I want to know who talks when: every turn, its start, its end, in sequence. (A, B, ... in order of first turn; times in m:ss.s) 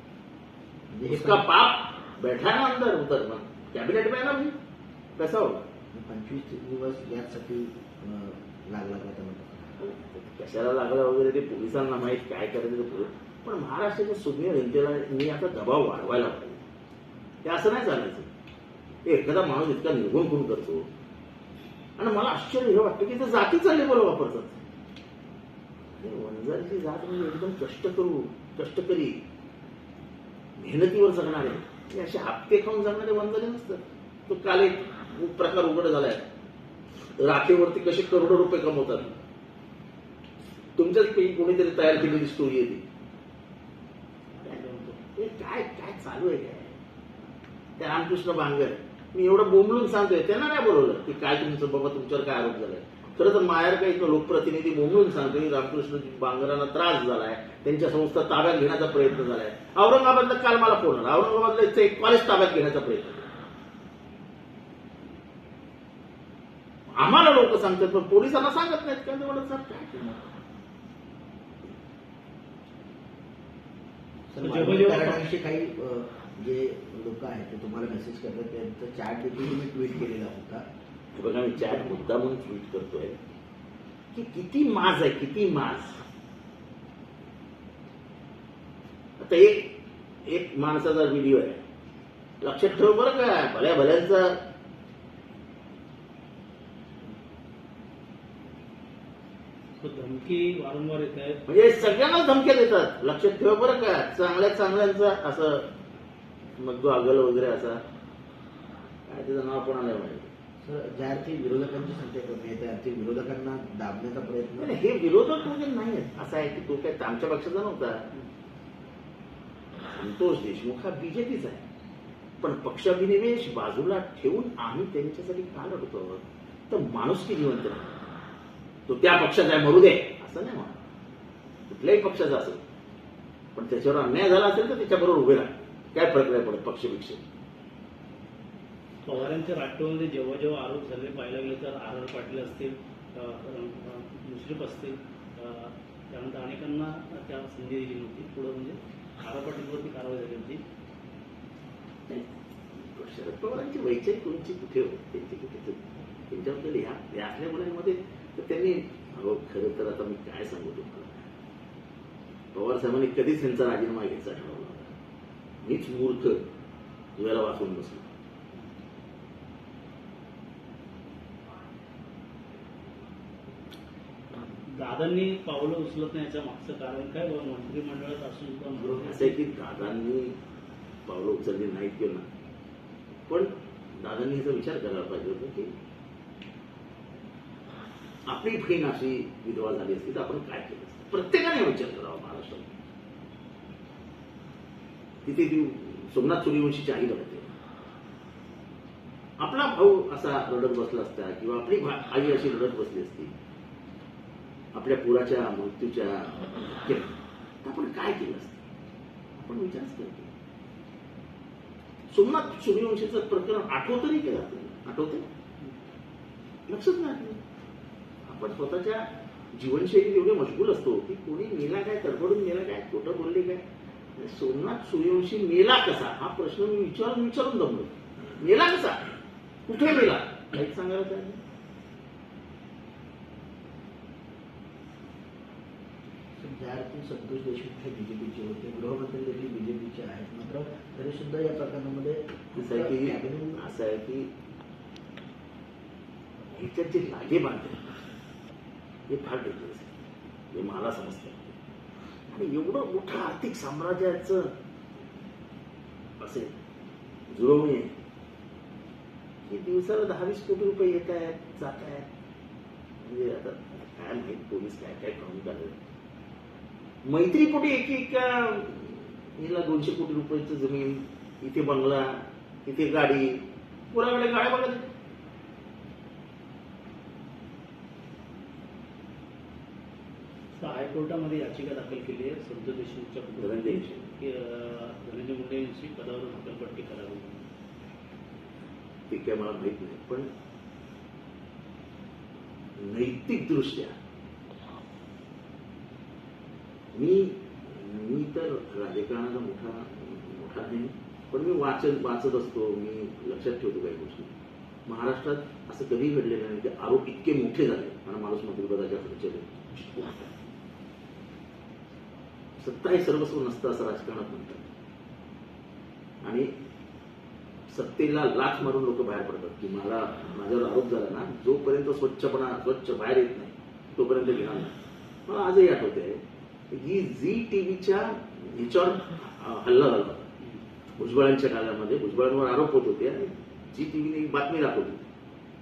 0:00.9-0:01.4 A
0:01.0-0:04.5 B
0:05.2-0:05.6 B
0:05.9-0:09.7 A
0:09.8-0:16.6 B
0:17.4-0:18.3 B
0:19.1-0:20.9 B
0:22.0-0:24.6 B
0:26.0-0:29.2 B
0:30.6-0:36.2 B
0:37.2-0:39.1 B
0:40.8-0:42.8 B
0:44.4-0:45.0 C
0:45.2-0:46.8 B
0:47.8-1:03.3 B
1:06.9-1:10.2 B
1:14.3-1:20.6 A
1:14.4-1:15.2 C
1:21.2-1:23.2 B
1:24.1-1:26.0 B
1:29.2-1:29.7 B
1:30.3-1:31.6 B
1:32.4-1:34.4 B
1:39.8-1:41.4 C
1:41.5-1:45.7 B
1:46.6-1:47.8 B
1:49.1-1:50.3 B
1:50.6-1:54.7 A
1:54.6-1:58.1 B
1:59.9-2:01.6 B
2:02.4-2:08.1 B
2:08.9-2:10.8 B
2:11.7-2:12.6 B
2:13.6-2:17.2 B
2:19.0-2:30.6 C
2:32.1-2:41.3 B
2:42.5-2:44.9 B
2:45.6-2:46.4 B
2:47.2-2:48.1 B
2:54.7-2:59.4 C
2:58.9-3:00.4 B
3:01.1-3:02.2 B
3:03.3-3:05.7 B
3:08.3-3:12.8 B
3:15.2-3:17.5 B
3:19.4-3:23.3 B
3:24.8-3:28.6 B
3:29.4-3:30.3 B
3:32.1-3:35.2 B
3:36.7-3:37.4 B
3:38.3-3:43.6 B
3:44.2-3:49.0 B
3:49.7-3:51.4 B
3:56.4-4:03.6 A
4:02.6-4:04.3 B
4:06.5-4:08.1 B
4:09.1-4:09.9 B
4:10.5-4:11.6 B
4:12.3-4:14.5 B
4:16.2-4:16.5 B
4:17.3-4:17.9 B
4:19.5-4:22.1 B
4:23.0-4:25.8 B
4:27.0-4:34.8 B
4:40.6-4:47.5 C
4:43.4-4:44.1 B
4:49.1-4:50.3 B
4:52.8-4:54.0 B
4:56.9-5:04.3 B
5:04.9-5:10.3 B
5:12.6-5:14.7 B
5:16.2-5:16.5 B
5:17.7-5:24.8 B
5:25.3-5:30.3 B
5:31.0-5:35.0 B